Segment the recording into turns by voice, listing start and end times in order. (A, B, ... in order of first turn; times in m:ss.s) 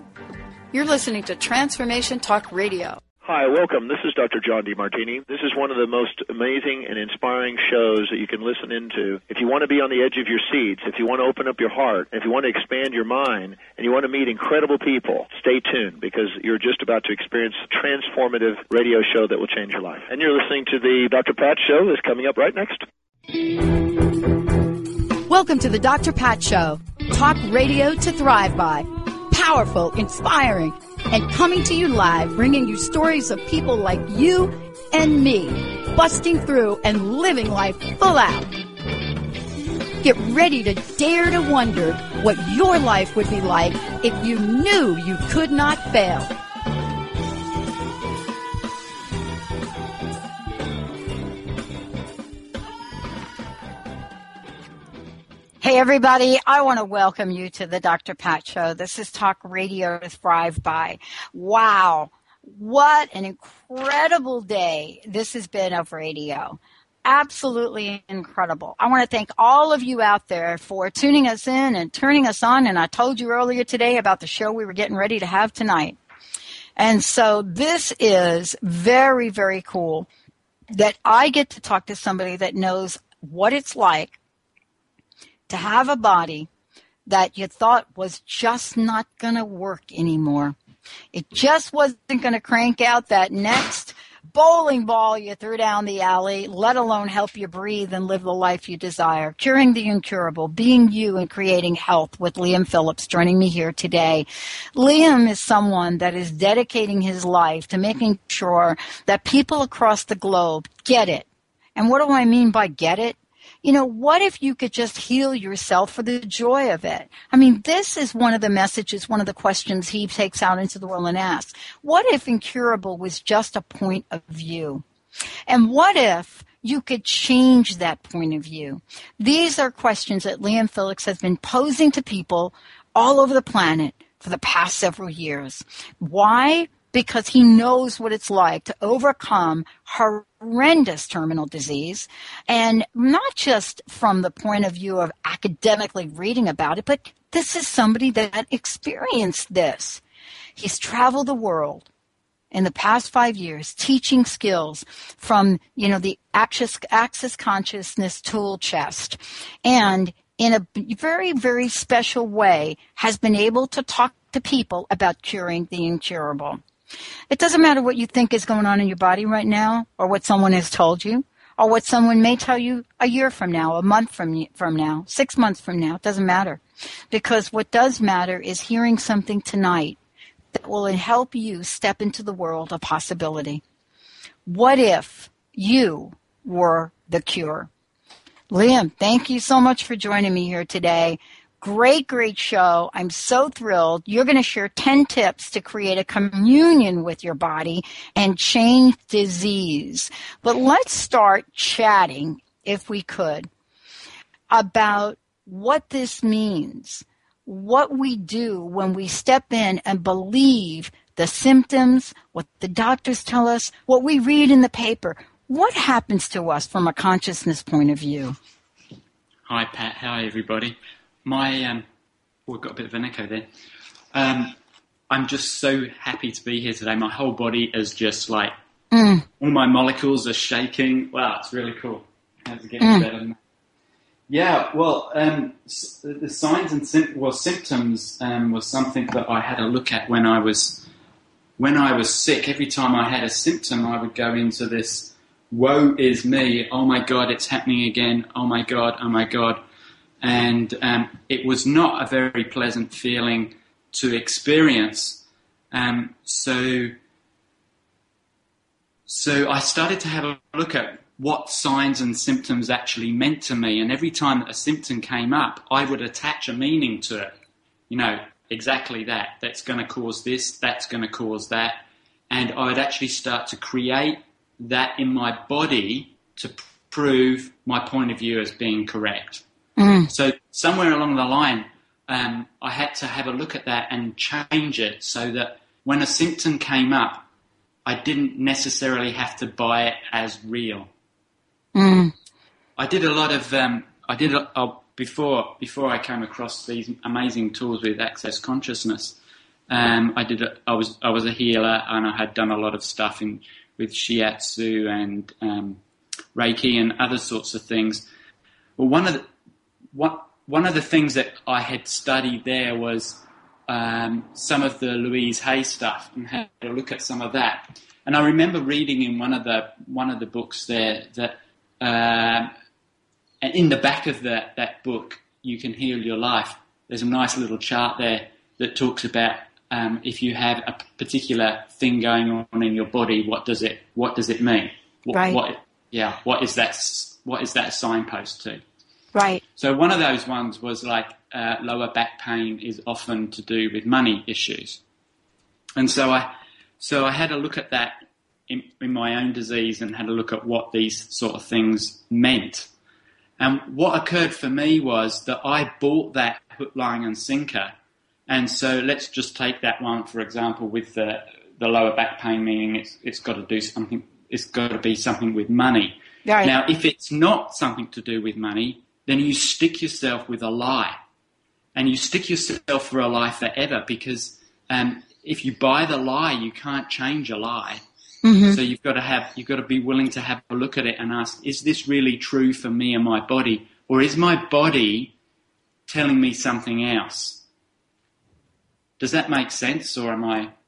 0:00.7-0:03.0 A
0:03.2-0:22.8 B
0:25.3-0:38.5 A
0:40.0-0:46.3 A
0:55.6-1:16.0 A
1:16.8-1:20.1 A
1:20.7-1:24.2 A
1:25.5-1:26.5 A
1:27.1-1:30.6 A
1:31.1-2:04.8 A
2:05.5-2:30.0 A
2:30.6-2:31.8 A
2:32.5-2:46.6 A
2:47.3-2:56.6 A
2:57.1-3:00.0 A
3:00.6-3:03.6 A
3:04.5-3:07.7 A
3:08.5-3:23.5 A
3:24.5-3:38.4 A
3:39.5-3:41.8 C
3:42.5-3:43.5 C
3:44.1-3:44.6 C
3:45.1-3:48.5 C
3:48.9-3:49.2 A
3:49.4-3:53.4 C
3:52.8-3:53.1 A
3:54.3-4:00.9 C
4:01.6-4:09.6 C
4:10.2-4:16.9 C
4:19.1-4:27.3 C
4:27.9-4:39.4 C
4:39.8-4:40.1 A
4:40.1-4:47.2 C
4:47.8-4:50.9 C
4:51.7-4:52.1 A
4:52.8-4:59.2 C
4:59.7-5:05.8 C
5:06.3-5:08.0 C
5:08.8-5:09.2 C
5:09.9-5:22.5 C
5:23.4-5:38.6 C
5:35.1-5:35.4 A
5:39.1-5:39.4 A
5:39.6-5:44.8 C
5:45.8-5:52.7 C
5:53.4-5:57.7 C
5:58.3-6:11.0 C
6:06.2-6:06.5 A
6:11.7-6:17.8 C
6:18.2-6:18.6 A
6:18.5-6:25.1 C
6:25.9-6:27.4 C
6:29.0-6:30.5 C